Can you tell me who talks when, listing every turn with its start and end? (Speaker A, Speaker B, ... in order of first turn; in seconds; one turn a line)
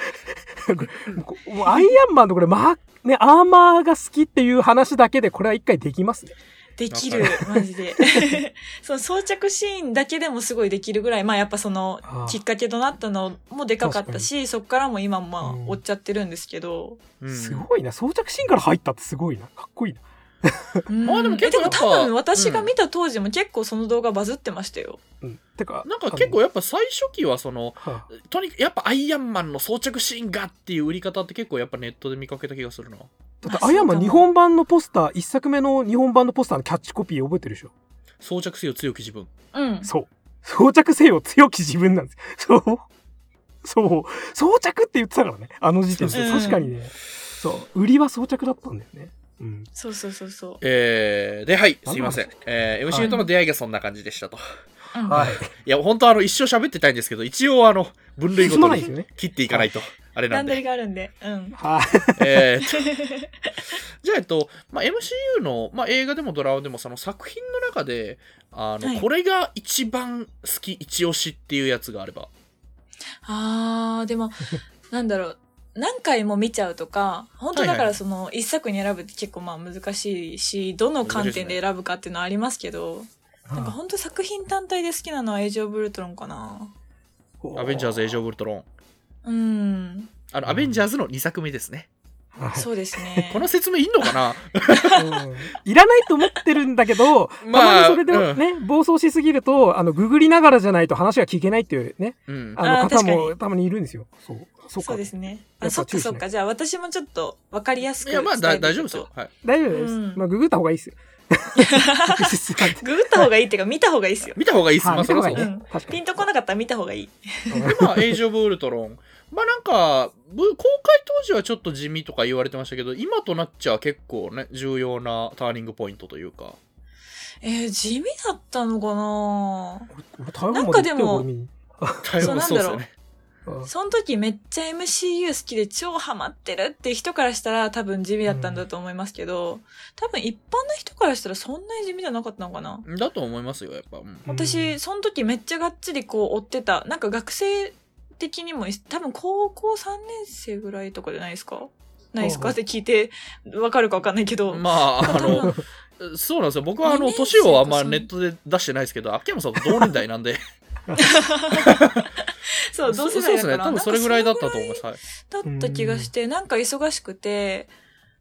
Speaker A: 0.3-6.3
Speaker B: 6.8-17.0
Speaker C: 6.9-7.4
Speaker A: 7.2-8.4
Speaker A: 12.1-12.4
Speaker A: 13.8-14.3
Speaker A: 15.4-15.8
Speaker C: 17.2-17.7
Speaker A: 17.3-20.9
Speaker B: 20.9-25.0
Speaker C: 21.1-22.7
Speaker A: 25.2-26.4
Speaker C: 25.9-33.1
Speaker A: 27.8-28.1
Speaker A: 33.4-37.7
Speaker B: 33.5-34.3
Speaker C: 38.2-39.3
Speaker B: 39.5-39.9
Speaker A: 39.8-42.9
Speaker A: 43.6-49.7
Speaker C: 46.0-46.6
Speaker B: 46.1-46.7
Speaker B: 49.8-50.6
Speaker C: 50.6-54.4
Speaker A: 51.9-52.3
Speaker A: 52.9-53.2
Speaker B: 54.9-55.3
Speaker A: 55.1-55.5
Speaker C: 55.1-60.6
Speaker A: 58.4-59.7
Speaker B: 60.3-61.6
Speaker A: 61.5-62.5
Speaker C: 62.2-62.9
Speaker B: 62.8-63.3
Speaker C: 64.0-72.3
Speaker B: 73.2-86.7
Speaker C: 77.5-78.0
Speaker C: 81.0-81.6
Speaker A: 83.5-83.8
Speaker A: 87.4-88.2
Speaker C: 87.5-88.7
Speaker B: 89.2-90.1
Speaker C: 90.3-91.9
Speaker A: 90.5-90.8
Speaker A: 92.3-93.3
Speaker B: 92.5-93.5
Speaker C: 93.3-95.0
Speaker A: 94.9-106.2
Speaker C: 97.4-98.4
Speaker C: 102.3-102.6
Speaker B: 102.6-103.3
Speaker B: 104.8-109.1
Speaker C: 108.0-109.3
Speaker A: 109.4-113.3
Speaker B: 109.7-110.2
Speaker B: 111.6-114.4
Speaker C: 114.4-115.5
Speaker A: 114.8-116.2
Speaker B: 115.3-117.7
Speaker A: 117.5-118.2
Speaker C: 117.6-126.6
Speaker B: 127.4-129.9
Speaker A: 129.9-132.5
Speaker B: 130.5-131.3
Speaker C: 132.0-132.9
Speaker B: 132.2-132.8
Speaker B: 133.7-142.8
Speaker A: 138.3-138.6
Speaker C: 142.9-144.2
Speaker A: 144.3-144.8
Speaker B: 144.3-155.6
Speaker A: 152.2-152.6
Speaker C: 154.5-160.4
Speaker A: 155.1-155.6
Speaker B: 156.8-158.1
Speaker B: 160.9-167.7
Speaker C: 161.6-162.1
Speaker C: 162.9-165.0
Speaker A: 165.4-166.1